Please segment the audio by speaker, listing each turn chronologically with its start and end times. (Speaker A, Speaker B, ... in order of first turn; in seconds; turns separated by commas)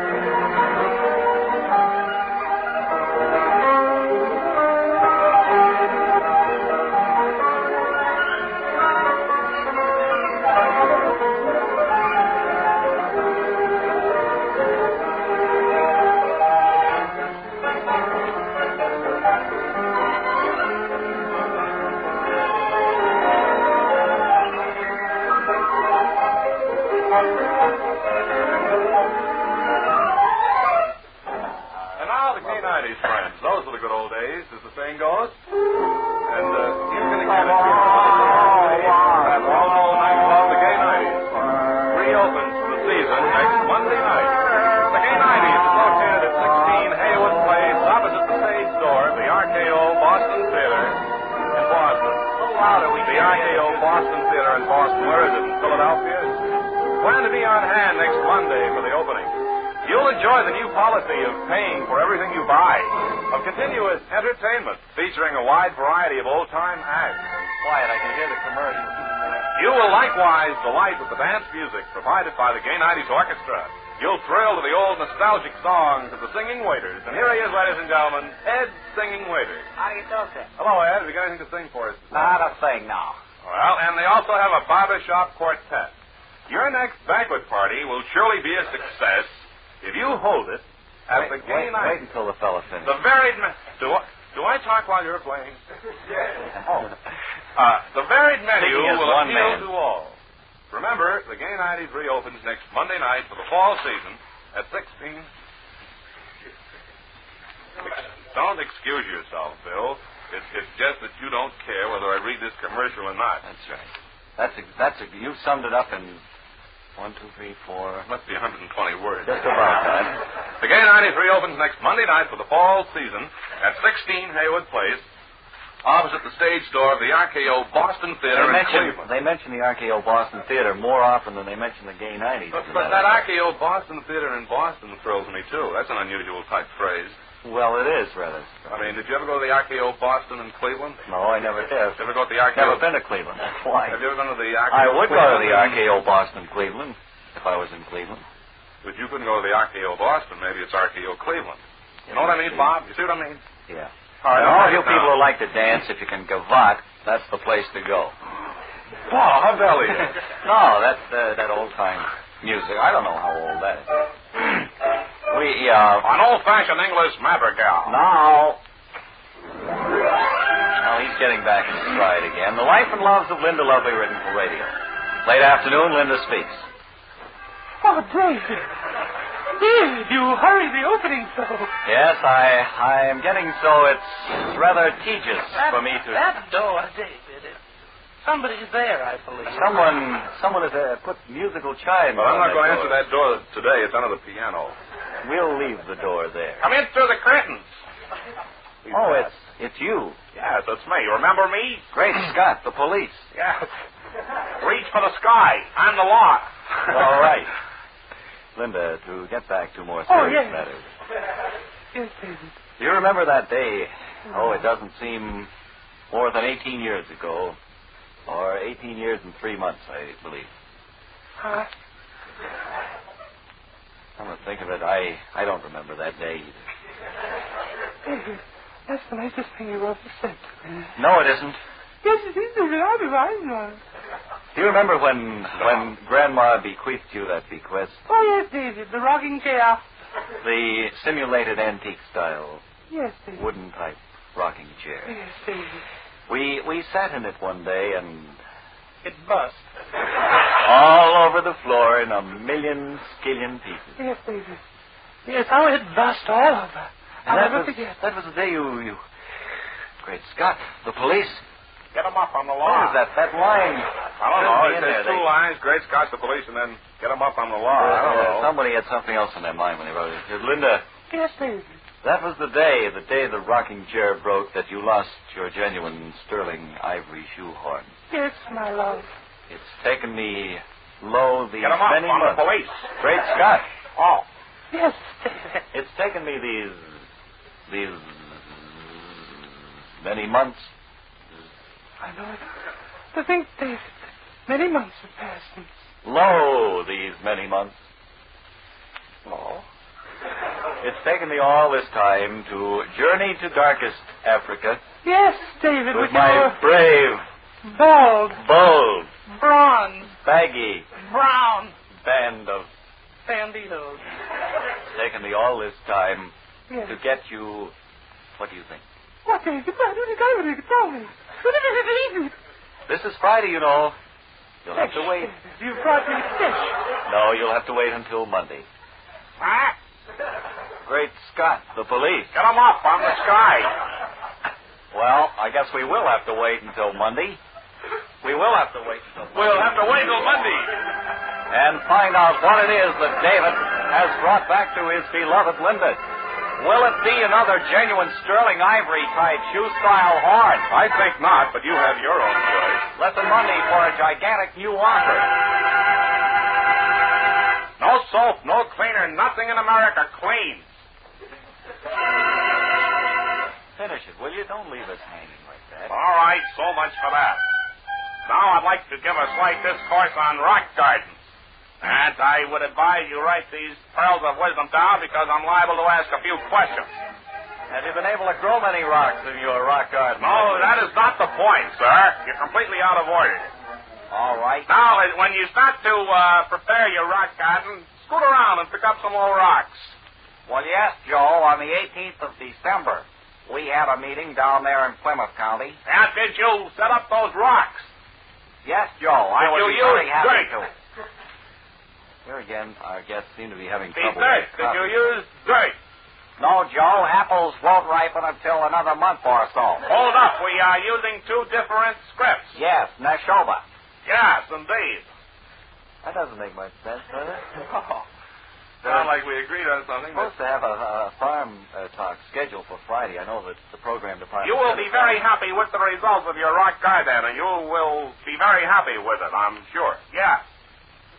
Speaker A: 31.9-32.8, Speaker B: 32.0-35.4, Speaker B: 36.2-41.4, Speaker A: 37.1-39.8, Speaker A: 41.5-41.9, Speaker B: 41.9-51.0, Speaker B: 51.5-52.3, Speaker A: 52.4-53.9, Speaker B: 53.0-56.4, Speaker B: 57.0-67.3, Speaker A: 67.6-69.1, Speaker B: 69.5-79.7, Speaker A: 79.8-80.5, Speaker B: 80.6-82.5, Speaker A: 82.1-83.2, Speaker B: 83.4-85.9, Speaker B: 86.5-92.0, Speaker A: 91.1-93.0, Speaker B: 92.8-95.6, Speaker B: 96.6-96.9, Speaker B: 97.5-100.2, Speaker A: 98.5-99.7, Speaker B: 100.7-105.3, Speaker B: 107.8-113.4, Speaker A: 113.4-116.2, Speaker A: 117.0-118.1, Speaker B: 118.1-119.9, Speaker A: 119.2-120.2, Speaker B: 120.6-125.0, Speaker B: 125.8-129.1, Speaker A: 128.3-133.3, Speaker B: 132.5-137.2, Speaker A: 137.4-139.0, Speaker B: 138.7-141.1, Speaker A: 141.1-142.0, Speaker B: 142.0-142.8, Speaker A: 142.5-144.0, Speaker B: 143.9-145.8, Speaker A: 144.7-148.2, Speaker B: 148.8-153.4, Speaker A: 152.1-152.7, Speaker A: 153.7-158.1, Speaker B: 154.2-155.2, Speaker B: 159.1-160.2, Speaker A: 160.1-164.7, Speaker A: 165.3-166.1, Speaker B: 166.0-168.0, Speaker A: 167.8-168.6, Speaker A: 170.8-176.7, Speaker C: 177.8-178.7, Speaker C: 179.5-181.7, Speaker A: 181.8-186.2, Speaker C: 185.5-187.6, Speaker C: 188.2-189.8, Speaker A: 189.4-193.0, Speaker B: 192.2-194.7, Speaker A: 195.2-196.7, Speaker B: 196.6-197.7, Speaker B: 198.8-199.3, Speaker A: 198.9-200.2, Speaker B: 200.3-201.9, Speaker A: 201.9-203.3, Speaker B: 203.3-203.7, Speaker B: 204.6-207.1, Speaker A: 206.9-207.5, Speaker A: 208.6-210.9, Speaker C: 210.1-210.6, Speaker C: 211.9-212.6, Speaker A: 212.8-215.5, Speaker A: 216.1-217.6, Speaker A: 218.3-220.5, Speaker C: 221.4-221.7, Speaker A: 224.2-226.6, Speaker C: 228.1-230.9, Speaker A: 230.9-231.6, Speaker C: 232.0-233.8, Speaker A: 234.5-238.0, Speaker C: 238.1-239.8, Speaker A: 240.4-242.6, Speaker C: 242.9-243.4, Speaker A: 243.3-245.2, Speaker C: 245.1-245.8, Speaker A: 246.3-248.4, Speaker C: 249.0-249.7, Speaker A: 250.5-254.0, Speaker C: 254.0-254.6, Speaker C: 255.2-257.9, Speaker A: 257.2-259.0, Speaker A: 260.0-261.4, Speaker B: 261.9-263.0, Speaker A: 262.6-265.3, Speaker B: 264.2-268.5, Speaker A: 267.8-270.8, Speaker C: 271.1-271.6, Speaker A: 272.0-277.9, Speaker C: 278.1-279.1, Speaker A: 279.5-282.4, Speaker B: 281.6-282.9, Speaker A: 283.0-283.6, Speaker B: 283.9-284.2, Speaker C: 284.7-285.6, Speaker A: 285.7-287.0, Speaker A: 287.7-289.4, Speaker A: 290.0-290.7, Speaker C: 292.0-292.4, Speaker C: 293.1-293.9, Speaker C: 294.5-295.8, Speaker A: 296.0-297.8, Speaker A: 300.8-304.8, Speaker C: 305.0-306.6, Speaker A: 305.9-307.2, Speaker C: 307.6-308.4, Speaker A: 308.4-309.1, Speaker C: 309.3-310.1, Speaker A: 310.2-310.9, Speaker C: 311.0-311.7, Speaker B: 311.3-311.6, Speaker A: 312.0-312.7, Speaker C: 313.2-314.0, Speaker A: 314.8-316.3, Speaker A: 316.8-317.7, Speaker A: 318.4-318.8, Speaker C: 319.2-322.3, Speaker A: 322.9-323.9, Speaker A: 324.6-325.3, Speaker C: 324.7-326.8, Speaker A: 327.1-328.6, Speaker B: 329.4-329.8, Speaker A: 330.8-332.3, Speaker B: 332.3-333.7, Speaker A: 334.9-337.4, Speaker A: 338.2-339.9, Speaker B: 339.3-340.8, Speaker A: 341.5-346.0, Speaker A: 346.6-350.7, Speaker B: 350.7-352.9, Speaker A: 352.9-355.3, Speaker B: 357.8-360.6, Speaker A: 363.8-366.0, Speaker B: 365.9-367.4, Speaker B: 368.2-371.2, Speaker B: 371.8-377.0, Speaker A: 377.7-380.9, Speaker B: 380.2-383.5, Speaker A: 384.1-384.7, Speaker B: 384.7-390.0, Speaker A: 390.4-395.8, Speaker B: 395.9-397.9, Speaker A: 398.6-400.7, Speaker B: 399.4-400.5, Speaker A: 402.2-405.0, Speaker B: 403.9-405.8, Speaker A: 406.4-409.9, Speaker B: 409.9-412.6, Speaker A: 412.5-413.6, Speaker B: 414.0-415.1, Speaker A: 416.0-417.5, Speaker B: 417.5-418.0, Speaker A: 418.8-419.1, Speaker B: 418.8-420.3, Speaker A: 420.1-425.2, Speaker B: 424.4-430.4